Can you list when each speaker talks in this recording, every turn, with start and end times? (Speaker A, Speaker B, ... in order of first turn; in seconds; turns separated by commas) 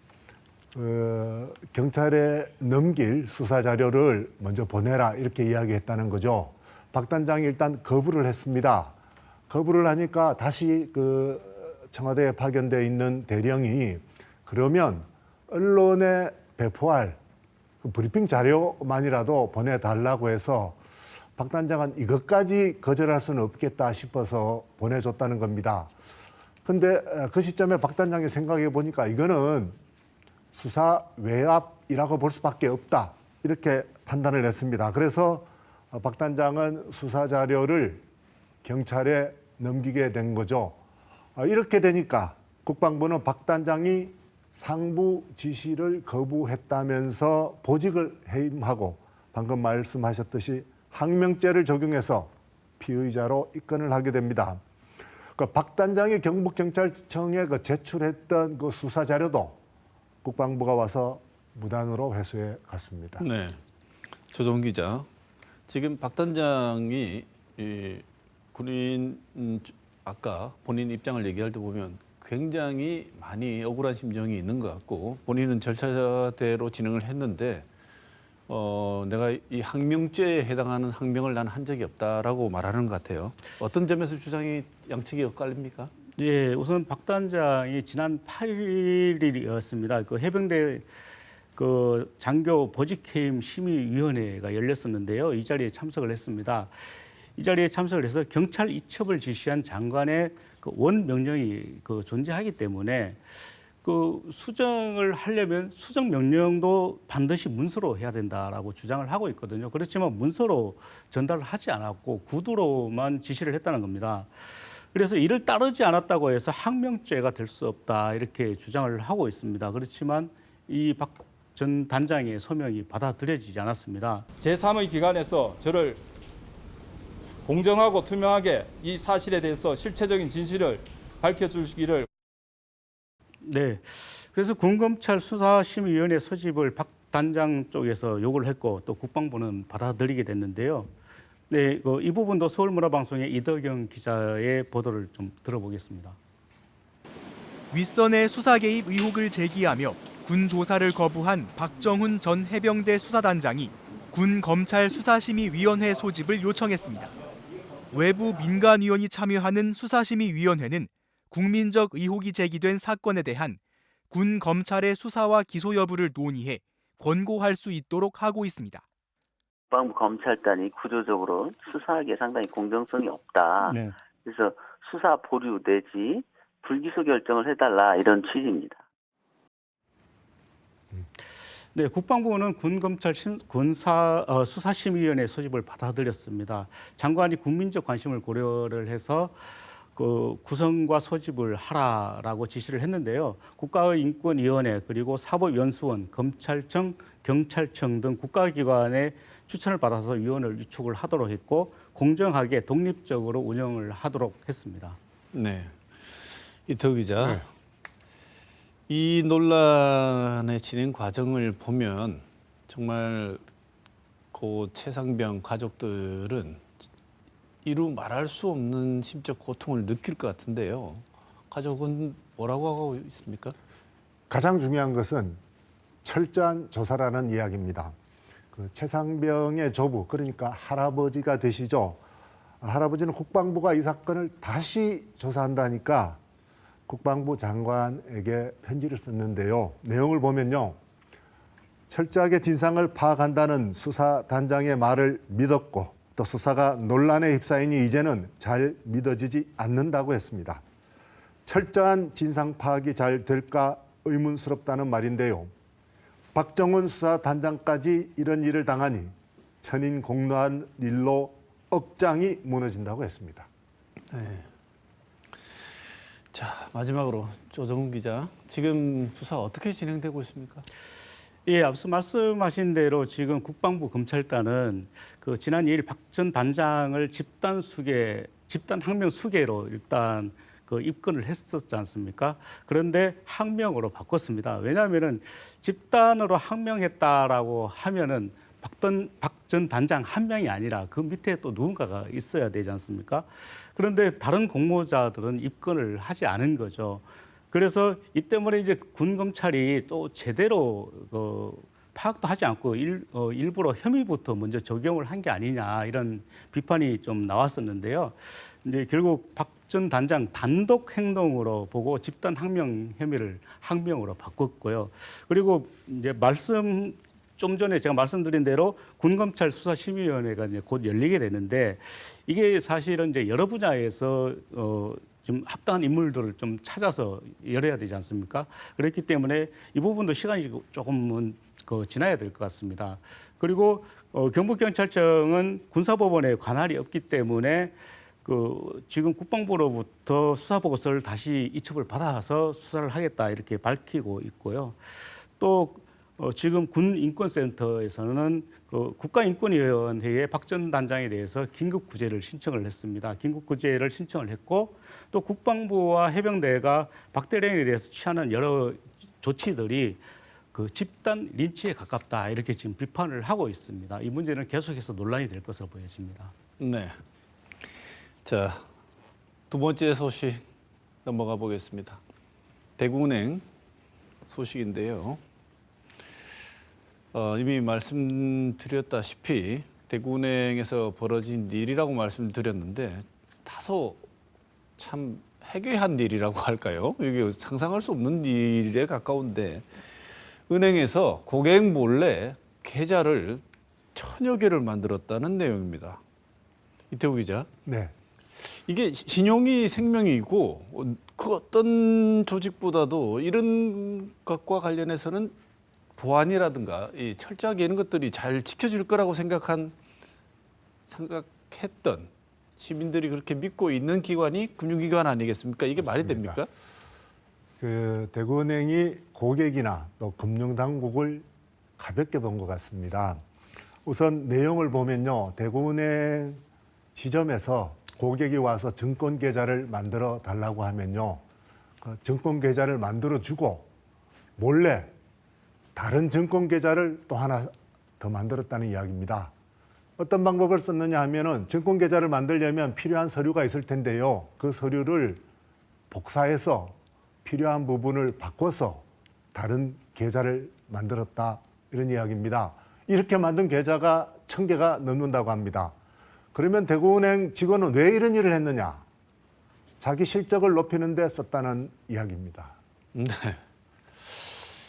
Speaker A: 0.7-9.0, Speaker A: 9.5-17.2, Speaker A: 17.8-20.8, Speaker A: 21.4-25.9, Speaker A: 26.6-29.8, Speaker A: 30.5-38.0, Speaker A: 38.6-40.8, Speaker A: 41.4-54.6, Speaker A: 55.4-59.6, Speaker A: 60.2-63.2, Speaker B: 63.2-63.6, Speaker B: 64.3-65.1, Speaker B: 65.7-77.7, Speaker B: 78.5-85.9, Speaker C: 86.2-90.9, Speaker C: 91.6-124.3, Speaker D: 124.4-126.0, Speaker D: 127.5-132.1, Speaker C: 133.4-140.9, Speaker C: 141.5-146.2, Speaker E: 147.7-157.1, Speaker E: 157.9-168.9, Speaker F: 169.7-178.8, Speaker C: 181.6-205.0, Speaker B: 205.3-205.8, Speaker B: 206.7-207.5, Speaker B: 208.9-213.4, Speaker B: 214.3-216.6, Speaker B: 217.7-223.6, Speaker A: 224.3-225.4, Speaker A: 226.0-227.9, Speaker A: 228.5-232.0, Speaker A: 232.6-236.2, Speaker A: 236.9-240.8, Speaker A: 241.9-250.6, Speaker A: 251.4-255.5, Speaker A: 256.3-263.5, Speaker B: 264.1-264.5, Speaker B: 266.3-270.6, Speaker C: 271.4-360.0, Speaker C: 360.5-366.3, Speaker B: 366.6-367.0, Speaker B: 368.2-368.6, Speaker B: 369.5-370.4, Speaker B: 371.1-372.0, Speaker B: 372.8-373.4, Speaker B: 374.2-375.2, Speaker B: 377.1-384.0, Speaker B: 384.8-389.7, Speaker B: 390.5-393.4, Speaker B: 393.9-396.0, Speaker B: 396.9-397.5, Speaker A: 397.7-397.9, Speaker B: 398.4-405.3, Speaker B: 406.0-409.7, Speaker B: 410.9-416.5, Speaker A: 415.8-416.4, Speaker A: 417.6-421.3, Speaker A: 421.8-423.2, Speaker A: 423.9-426.4, Speaker A: 426.9-431.2, Speaker A: 431.8-433.7, Speaker A: 434.4-434.9, Speaker A: 435.8-439.3, Speaker A: 440.0-445.2, Speaker A: 445.9-455.8, Speaker A: 456.3-458.9, Speaker A: 459.8-462.6, Speaker B: 462.9-463.4, Speaker B: 464.0-464.5